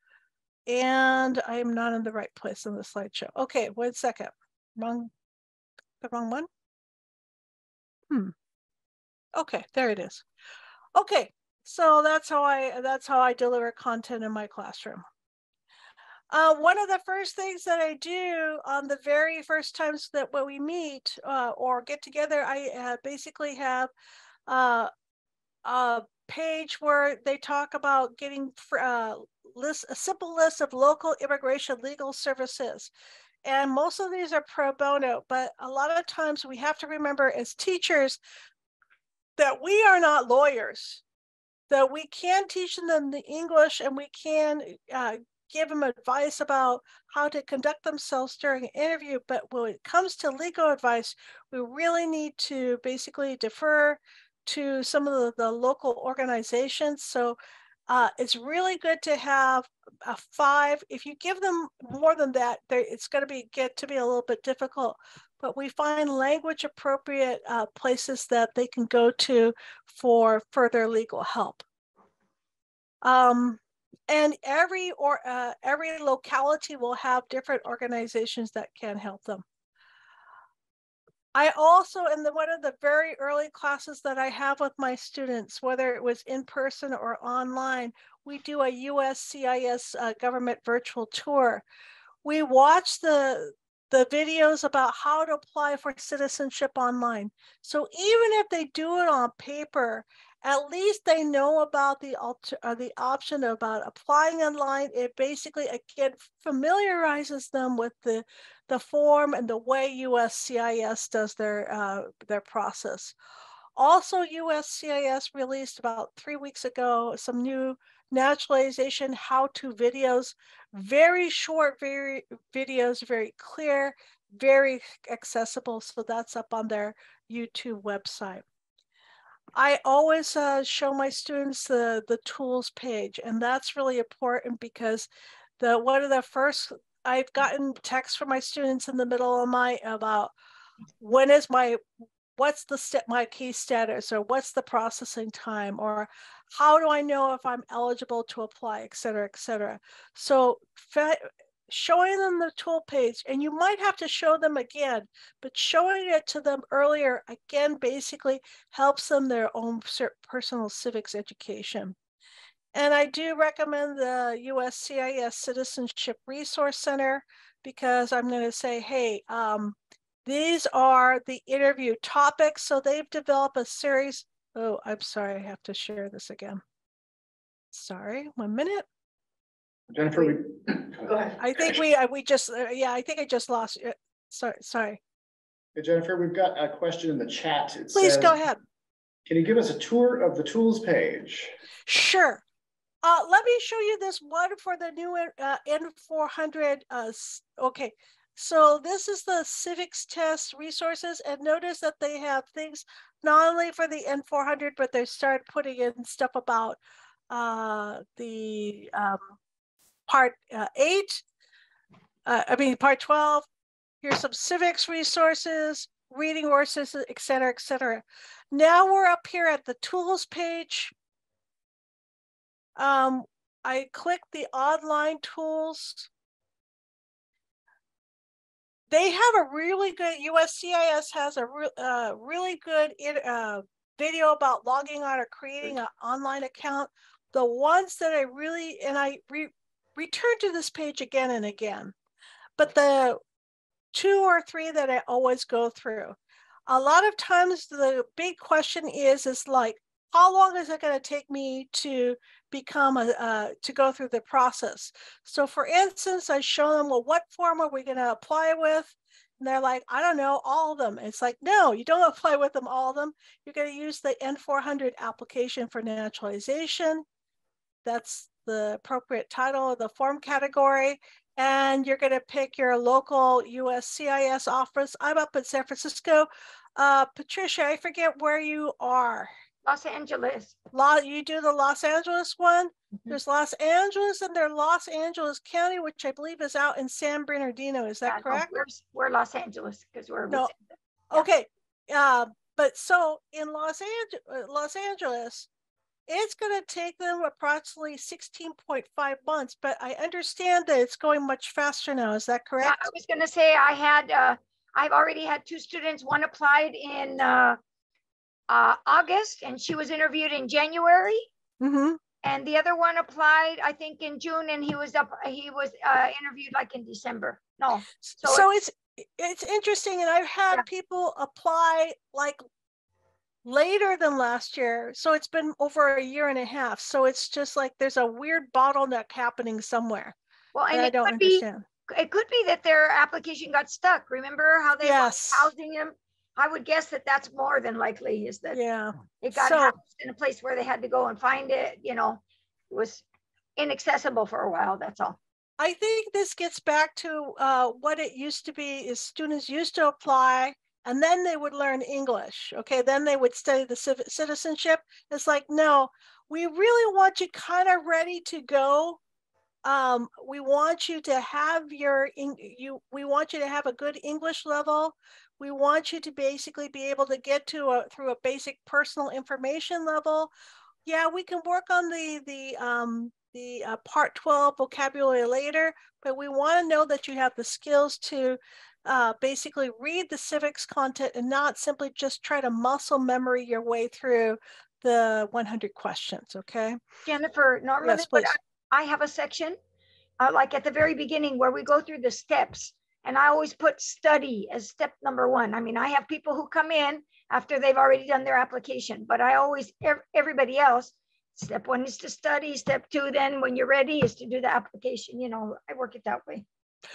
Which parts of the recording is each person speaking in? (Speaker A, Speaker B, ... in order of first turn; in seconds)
Speaker A: 0.7-5.1, 6.0-6.5, 9.4-10.2, 10.9-15.0, 16.3-23.9, 24.5-24.9, 25.6-32.9, 33.5-38.2, 39.4-41.0, 41.7-57.4, 57.9-71.6, 73.0-79.4, 81.3-91.6, 92.2-113.2, 113.8-128.4, 129.6-135.1, 135.6-140.3, 141.0-141.8, 142.4-161.9, 162.8-176.6, 177.7-178.9, 181.4-185.0, 187.9-188.6, 191.9-192.4, 193.0-206.8, 207.3-209.3, 210.1-211.2, 212.3-213.5, 214.0-220.9, 222.8-226.1, 228.9-241.9, 242.6-243.2, 243.9-246.2, 246.7-267.0, 267.9-279.3, 280.7-288.6, 291.1-295.5, 296.1-302.9, 311.6-312.0, 318.1-322.4, 323.4-330.1, 330.7-331.6, 334.8-335.5, 338.5-339.8, 345.6-359.0, 359.7-370.3, 370.9-386.8, 387.8-388.4
Speaker B: 179.9-181.4, 185.8-188.4, 189.3-191.5
Speaker C: 279.6-280.6, 288.1-290.5, 302.6-307.6, 308.5-311.3, 312.2-318.5, 330.6-338.6, 339.2-343.0, 343.6-345.2, 387.1-389.6, 390.2-406.4